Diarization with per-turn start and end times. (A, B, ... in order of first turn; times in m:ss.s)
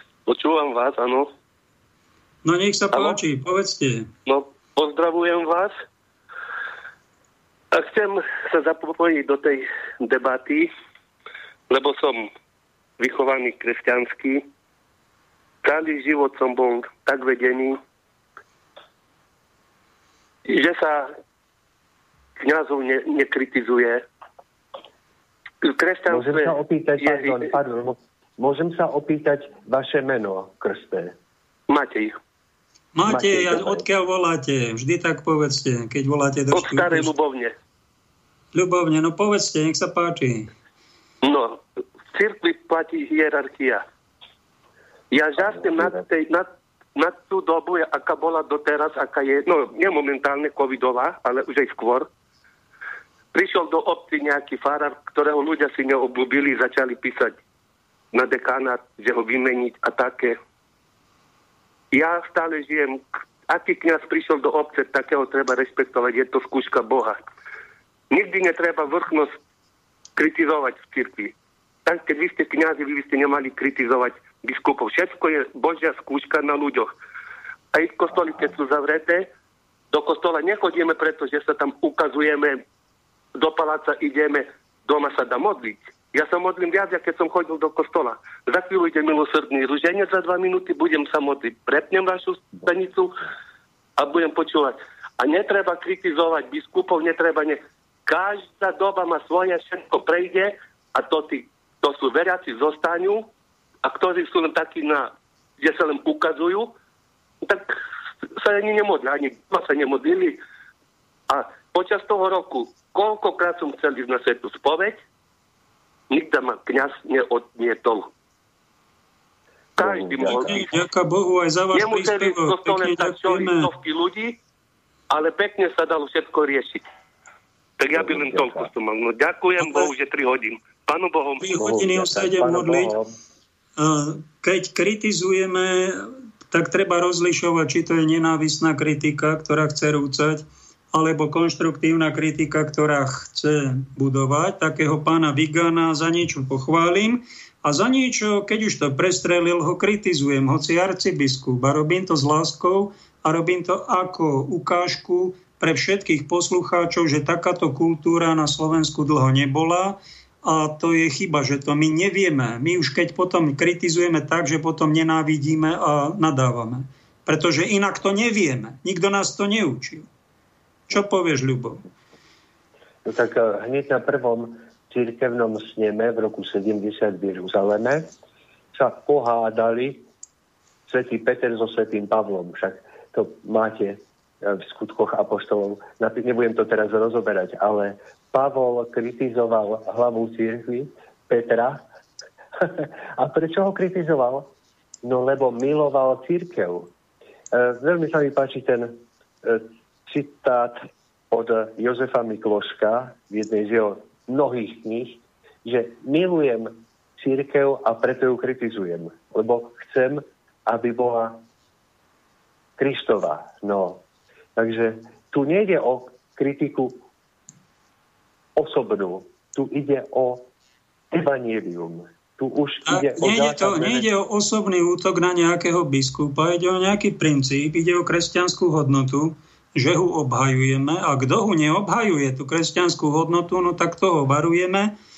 0:00.2-0:01.3 A
0:02.4-0:04.1 B
0:04.2-0:05.7 A
0:07.7-0:10.7 A
0:11.7-0:12.3 A
0:13.0-0:14.4 A
0:15.6-0:17.8 A
0:20.4-0:21.1 A
0:22.4-0:24.0 A
0:25.6-0:27.4 A
0:26.1-0:31.1 C
0:31.7-0:32.2 A
0:32.9-0:37.1 B
0:33.1-0:33.8 C
0:36.5-0:37.5 A
0:38.5-0:40.5 B
0:41.2-0:41.6 A
0:42.1-0:43.8 A
0:45.1-0:52.1 A
0:45.4-0:45.9 C
0:53.3-0:57.4 A
0:58.1-1:00.4 A
1:01.9-1:07.2 A
1:08.1-1:09.4 A
1:10.2-1:11.3 A
1:11.8-1:16.9 A
1:17.7-1:19.3 A
1:19.9-1:22.6 A
1:23.4-1:33.2 A
1:34.0-1:43.3 A
1:43.8-1:46.7 A
1:47.4-1:47.8 A
1:48.4-1:50.4 A
1:51.3-1:55.0 A
1:56.1-1:58.1 A
1:59.8-2:00.6 C
1:59.8-2:00.7 A
2:00.3-2:03.7 B
2:01.7-2:04.4 A
2:05.1-2:06.8 A
2:07.8-2:11.5 A
2:07.9-2:08.6 C
2:09.6-2:09.9 B
2:11.4-2:12.9 B
2:11.6-2:13.1 C
2:13.8-2:50.1 B
2:50.9-2:51.8 B
2:53.0-2:58.1 C
2:58.7-3:00.0 C
3:00.9-3:11.8 C
3:12.6-3:16.9 C
3:17.5-3:31.4 C
3:32.8-3:34.0 C
3:34.6-3:37.0 C
3:38.6-3:40.5 C
3:41.1-3:44.0 C
3:42.9-3:54.9 B